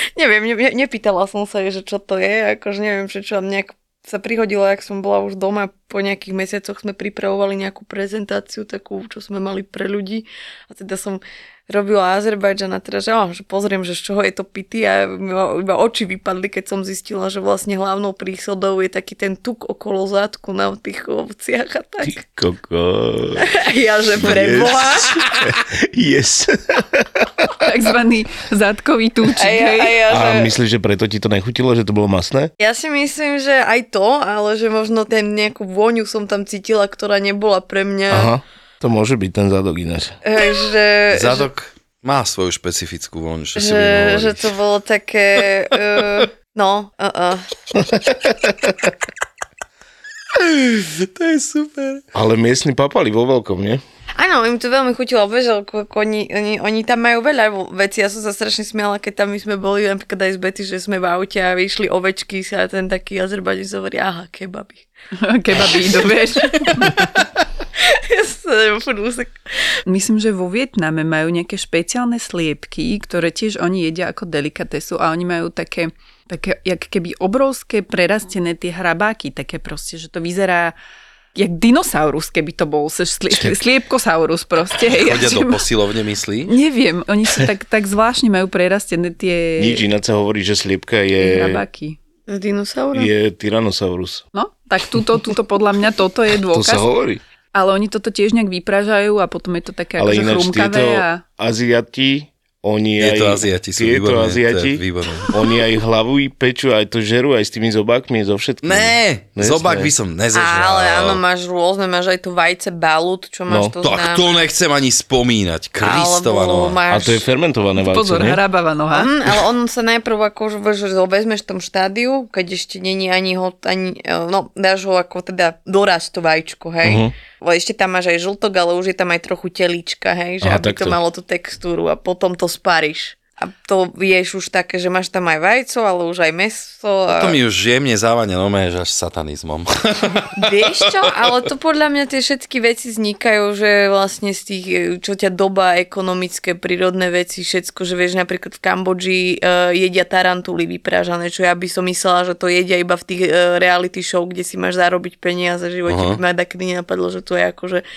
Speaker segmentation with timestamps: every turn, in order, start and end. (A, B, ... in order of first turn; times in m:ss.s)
0:00.2-0:22.2 A
0:22.0-0:23.5 B
0:23.4-0:25.3 A
0:24.2-0:27.4 B
0:27.6-0:30.0 C
0:29.4-0:30.5 A
0:30.1-0:32.5 B
0:32.6-0:38.3 A
0:38.1-0:40.2 B
0:40.2-0:41.5 A
0:41.1-0:44.5 D
0:43.6-0:47.5 A
0:47.8-0:48.7 B
0:50.4-0:52.0 D
0:52.1-0:53.8 B
0:54.2-1:04.8 A
1:05.2-1:07.0 C
1:05.7-1:05.9 A
1:06.6-1:07.2 A
1:07.8-1:09.3 A
1:09.8-1:20.7 C
1:21.3-1:25.6 C
1:23.3-1:23.6 B
1:24.9-1:26.5 D
1:26.5-1:29.8 C
1:29.6-1:31.6 B
1:31.2-1:32.0 C
1:32.3-1:33.1 A
1:32.9-1:34.2 B
1:34.3-1:36.9 C
1:36.5-1:37.2 B
1:37.5-1:41.2 C
1:40.0-1:49.9 B
1:43.0-1:45.3 D
1:48.6-1:51.2 D
1:50.3-1:54.2 A
1:53.5-1:53.8 B
1:53.8-1:56.8 D
1:55.8-1:57.2 A
1:56.9-1:58.4 B
1:57.8-1:59.1 C
1:58.9-2:17.4 A
2:06.8-2:07.1 B
2:10.4-2:11.0 B
2:17.1-2:21.1 D
2:20.3-2:37.8 A
2:35.9-2:36.2 D